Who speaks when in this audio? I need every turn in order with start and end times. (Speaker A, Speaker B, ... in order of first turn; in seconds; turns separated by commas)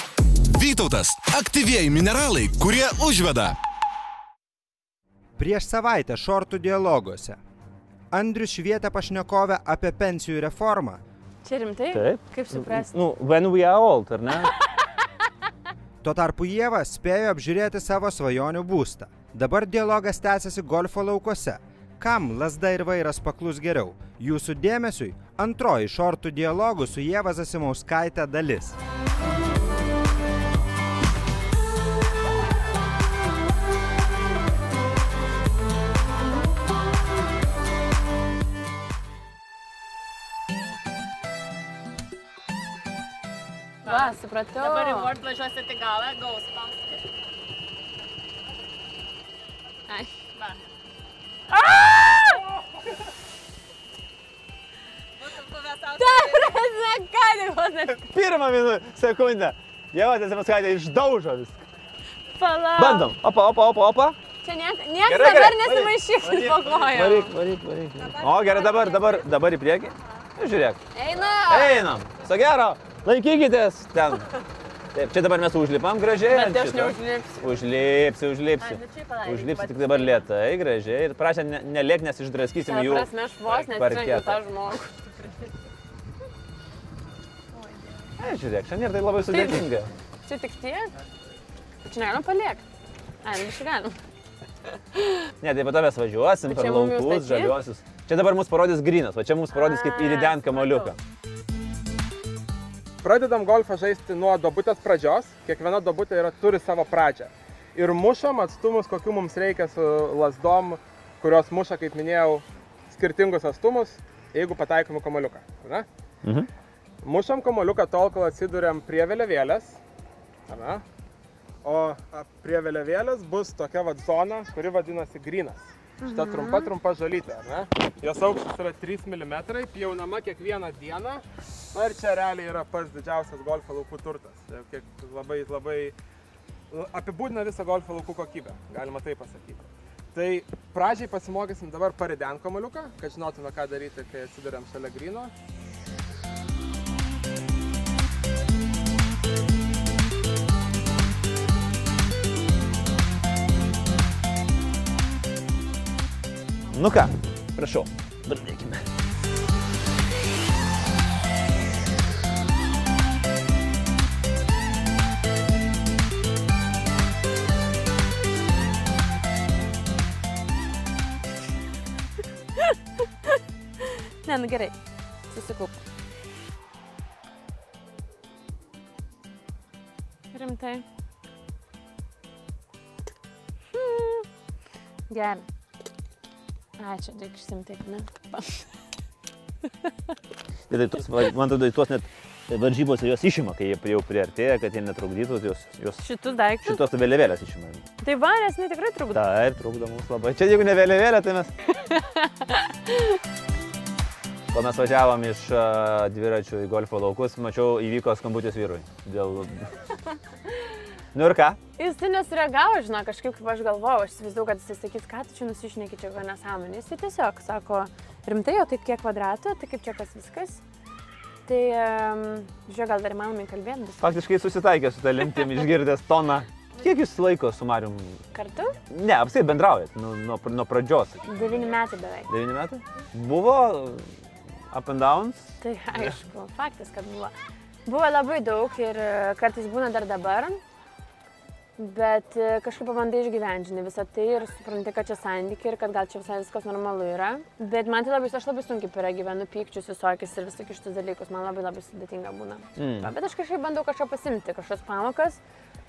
Speaker A: 0.5-3.6, Speaker B: 5.4-7.4, Speaker B: 8.1-11.0, Speaker C: 11.4-12.9, Speaker D: 11.9-14.5, Speaker B: 16.0-28.8, Speaker E: 43.8-47.1, Speaker C: 43.9-45.2, Speaker E: 50.4-50.6, Speaker C: 51.5-52.4, Speaker E: 55.2-56.5, Speaker C: 56.0-58.0, Speaker D: 58.1-61.6, Speaker C: 62.4-63.1, Speaker D: 62.8-64.2, Speaker C: 64.4-67.3, Speaker D: 65.1-70.8, Speaker E: 68.2-69.3, Speaker C: 70.9-71.9, Speaker D: 71.5-74.3, Speaker D: 74.9-84.4, Speaker C: 76.3-77.6, Speaker C: 78.6-80.2, Speaker C: 82.7-85.2, Speaker D: 88.2-89.9, Speaker C: 89.3-89.7, Speaker C: 90.3-90.9, Speaker C: 91.8-92.6, Speaker C: 93.2-94.0, Speaker D: 95.4-101.0, Speaker C: 96.5-97.6, Speaker C: 99.5-100.9, Speaker F: 103.0-115.9, Speaker F: 117.0-119.8, Speaker F: 120.5-120.8, Speaker F: 121.6-135.9, Speaker C: 126.0-126.7, Speaker F: 136.7-145.3, Speaker D: 156.7-158.8, Speaker C: 172.6-174.8, Speaker C: 175.3-175.8, Speaker C: 180.3-180.8, Speaker C: 183.7-184.2, Speaker C: 185.1-185.4, Speaker C: 186.8-188.7, Speaker D: 190.7-196.0, Speaker C: 196.0-196.8, Speaker D: 196.6-197.8, Speaker C: 198.0-199.2, Speaker D: 199.1-201.5, Speaker C: 201.7-203.2, Speaker D: 204.5-209.7, Speaker D: 211.1-211.6, Speaker C: 211.8-220.6, Speaker C: 221.5-224.1, Speaker D: 224.0-228.2, Speaker C: 228.3-228.8, Speaker D: 228.9-231.7, Speaker C: 231.3-232.3, Speaker D: 232.3-234.1, Speaker D: 234.7-235.5, Speaker C: 235.6-237.3, Speaker C: 237.9-240.6, Speaker C: 241.8-255.4, Speaker D: 252.8-253.1